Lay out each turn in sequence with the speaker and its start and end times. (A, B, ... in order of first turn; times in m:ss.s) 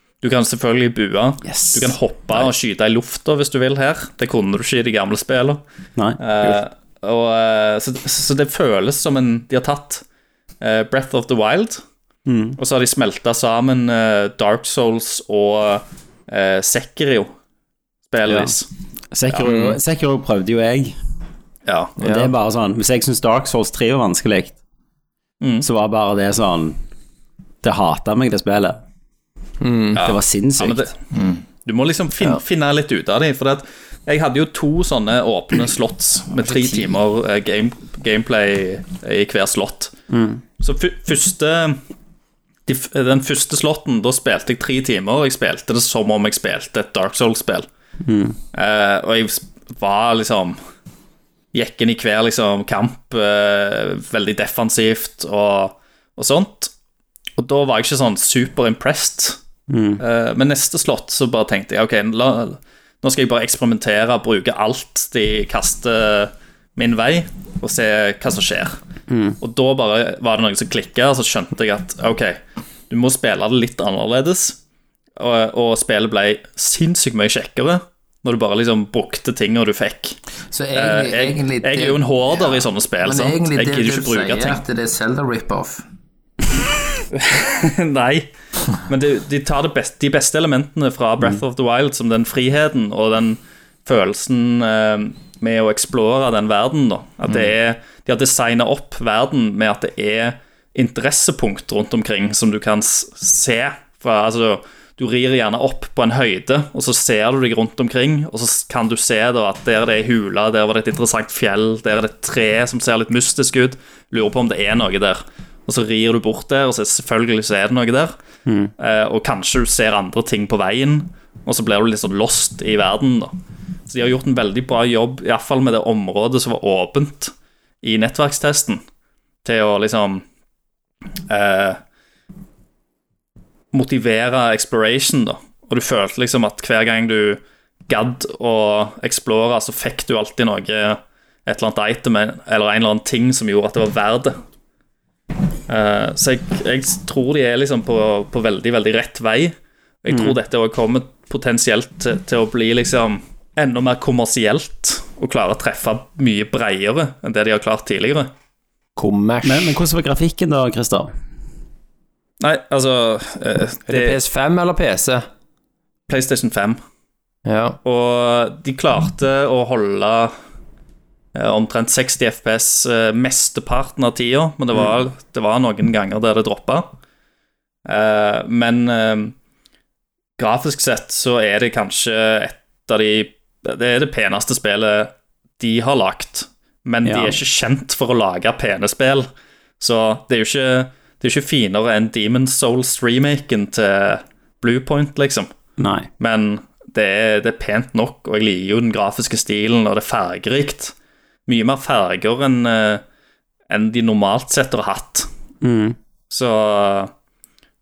0:00.2-0:05.6 A
0:01.5-0:01.9 B
0:06.0-0:06.5 C
0:06.2-0:10.0 A
0:10.6-0:11.8 A
0:12.2-0:12.6 C
0:12.6-0:17.3 A
0:18.1-0:18.6 A
0:18.2-0:18.5 C
0:19.1-0:21.0 C
0:19.4-0:19.7 B
0:21.6-0:21.9 A
0:22.0-0:22.3 B
0:22.0-0:24.6 C
0:25.4-0:25.6 A
0:25.6-0:26.8 C
0:27.6-0:28.8 C
0:29.6-0:30.0 B
0:29.9-0:30.9 A
0:30.0-0:30.9 C
0:31.6-0:40.0 A
0:40.1-0:40.4 C
0:40.6-0:41.8 A
0:42.7-0:47.7 A
0:48.0-0:48.4 C
0:48.5-0:50.6 A
0:51.5-0:56.7 A
0:57.4-0:59.4 A
0:59.7-1:00.0 C
1:00.0-1:08.8 A
1:09.1-1:09.4 C
1:09.4-1:14.6 A
1:15.2-1:20.2 A
1:20.5-1:25.8 D
1:20.7-1:24.6 A
1:27.1-1:58.1 A
1:58.4-1:58.7 C
1:58.8-2:03.3 A
2:03.9-2:08.8 A
2:09.4-2:10.2 A
2:11.3-2:11.8 A
2:13.7-2:24.4 A
2:25.7-2:38.3 A
2:30.1-2:30.4 C
2:39.0-2:39.8 B
2:39.4-2:41.1 C
2:42.4-2:44.2 A
2:43.9-2:45.3 B
2:46.1-2:46.8 A
2:47.4-2:47.8 B
2:47.8-2:50.3 A
2:51.3-2:56.9 A
2:57.8-2:59.3 A
3:00.4-3:09.3 A
3:07.0-3:07.4 C
3:09.8-3:15.5 A
3:15.8-3:16.1 C
3:16.2-3:20.9 A
3:21.5-3:23.0 A
3:23.7-3:25.3 A
3:25.6-3:26.0 C
3:26.3-3:27.1 A